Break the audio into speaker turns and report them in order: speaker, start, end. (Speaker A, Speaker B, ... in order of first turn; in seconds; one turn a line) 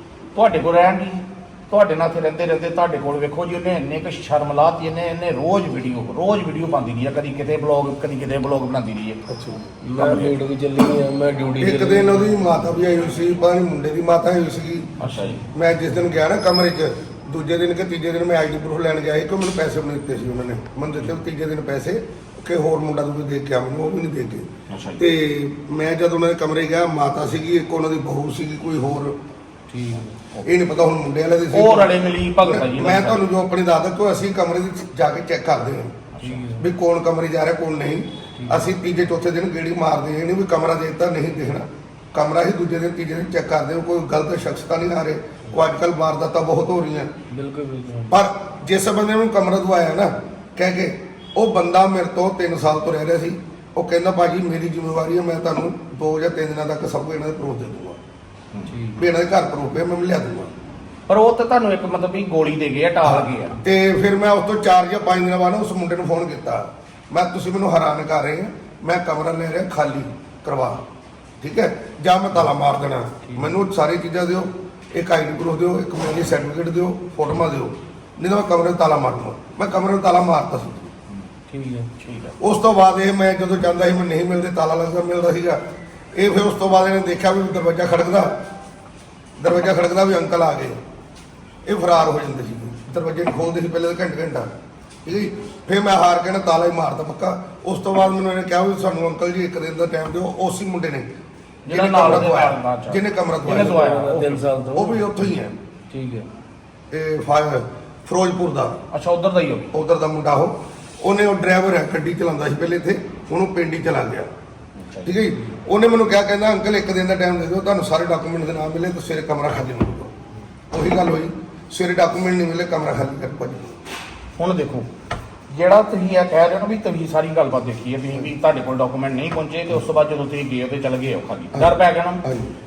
Speaker A: 0.3-9.2
Speaker B: 9.3-9.6
Speaker C: 9.8-12.4
Speaker A: 10.0-10.3
Speaker B: 11.6-14.9
Speaker A: 15.0-15.4
Speaker B: 15.5-29.2
Speaker A: 24.7-25.0
Speaker C: 29.7-30.1
Speaker B: 30.4-36.0
Speaker A: 31.5-33.2
Speaker A: 36.1-36.5
Speaker C: 36.2-36.6
Speaker B: 36.6-47.1
Speaker C: 38.4-38.7
Speaker C: 47.3-48.2
Speaker B: 48.1-58.0
Speaker C: 58.7-59.1
Speaker B: 59.0-60.5
Speaker A: 61.1-63.6
Speaker B: 63.0-70.8
Speaker B: 71.4-80.9
Speaker C: 73.2-73.6
Speaker C: 81.5-81.9
Speaker A: 82.0-82.4
Speaker B: 82.4-85.6
Speaker B: 86.1-88.4
Speaker B: 89.4-90.8
Speaker B: 91.6-94.5
Speaker B: 95.1-101.1
Speaker A: 101.7-104.4
Speaker B: 101.7-103.8
Speaker C: 103.5-105.1
Speaker B: 104.8-105.6
Speaker C: 105.9-106.3
Speaker B: 106.9-108.8
Speaker A: 108.9-109.7
Speaker B: 109.7-114.3
Speaker A: 114.8-115.3
Speaker B: 115.0-120.1
Speaker B: 120.7-123.8
Speaker A: 124.4-124.9
Speaker A: 125.5-132.2
Speaker B: 131.5-132.5